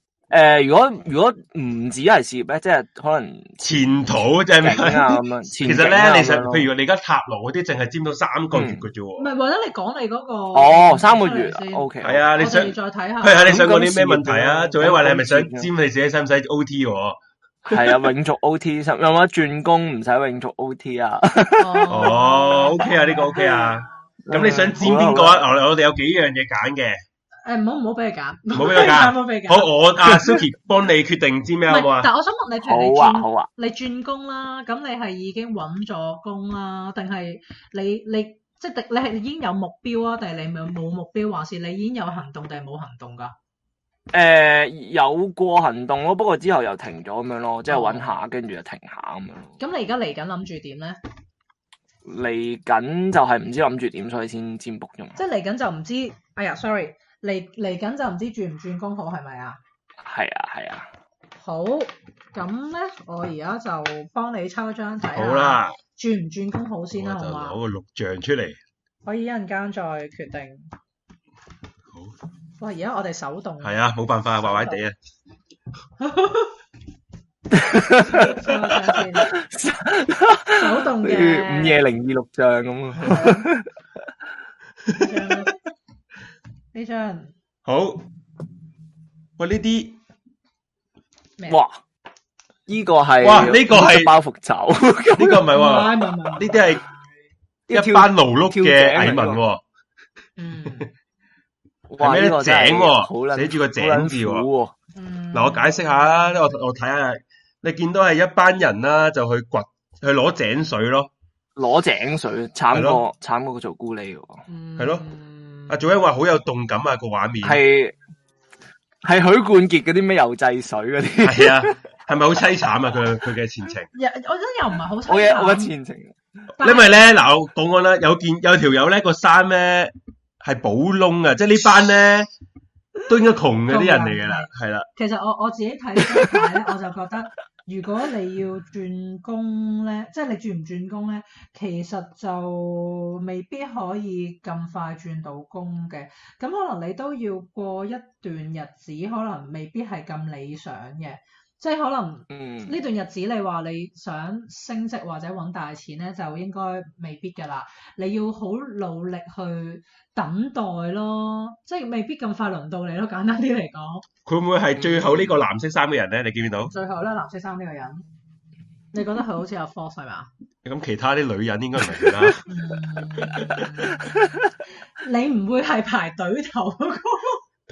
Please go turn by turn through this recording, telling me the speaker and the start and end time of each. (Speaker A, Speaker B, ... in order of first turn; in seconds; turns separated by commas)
Speaker A: 0.3-6.7, Speaker B: 3.6-9.3, Speaker A: 8.5-8.8, Speaker C: 9.2-13.6, Speaker A: 10.5-12.3, Speaker B: 12.0-18.0, Speaker A: 13.4-15.7, Speaker A: 17.7-22.1, Speaker C: 21.6-24.0, Speaker B: 21.9-27.0, Speaker A: 24.2-25.5, Speaker C: 27.4-29.7, Speaker B: 28.5-32.1, Speaker C: 31.7-43.3, Speaker A: 32.6-33.5, Speaker A: 44.1-49.5, Speaker C: 47.7-48.2, Speaker C: 49.6-51.0, Speaker A: 52.0-55.2, Speaker C: 55.1-59.6, Speaker A: 60.0-60.9, Speaker C: 61.4-67.6, Speaker B: 65.1-65.8, Speaker B: 66.9-68.6, Speaker C: 69.0-70.7, Speaker C: 72.6-73.8, Speaker B: 73.6-74.9, Speaker C: 74.4-74.8, Speaker C: 76.0-76.5, Speaker A: 77.5-78.5, Speaker C: 78.1-79.3, Speaker A: 79.1-83.7, Speaker C: 80.5-81.8, Speaker C: 83.0-83.5, Speaker C: 85.0-85.5, Speaker C: 86.7-87.3, Speaker B: 87.6-88.0, Speaker B: 89.4-90.0, Speaker A: 91.5-91.8, Speaker A: 92.7-95.5, Speaker B: 93.2-94.1, Speaker B: 95.2-96.8, Speaker C: 95.5-97.1, Speaker A: 97.7-99.4, Speaker B: 97.7-99.6, Speaker C: 100.4-100.9, Speaker A: 101.9-104.7, Speaker B: 102.0-104.5, Speaker C: 104.9-106.5, Speaker B: 105.3-111.1, Speaker A: 111.5-114.4, Speaker B: 112.7-113.0, Speaker C: 114.5-115.8, Speaker B: 114.8-115.0, Speaker B: 115.7-117.6, Speaker A: 117.4-117.9, Speaker A: 119.0-121.7, Speaker B: 121.2-123.9, Speaker C: 123.9-125.7, Speaker A: 125.1-126.1, Speaker B: 126.6-132.3, Speaker C: 126.6-126.9, Speaker B: 133.1-134.9, Speaker C: 133.7-164.1, Speaker A: 152.3-152.7, Speaker B: 164.2-166.7, Speaker A: 164.8-165.3, Speaker C: 166.7-168.0, Speaker C: 168.9-170.3, Speaker B: 170.6-172.4, Speaker C: 172.4-174.3, Speaker A: 173.3-174.5, Speaker B: 173.3-173.6, Speaker C: 175.0-177.4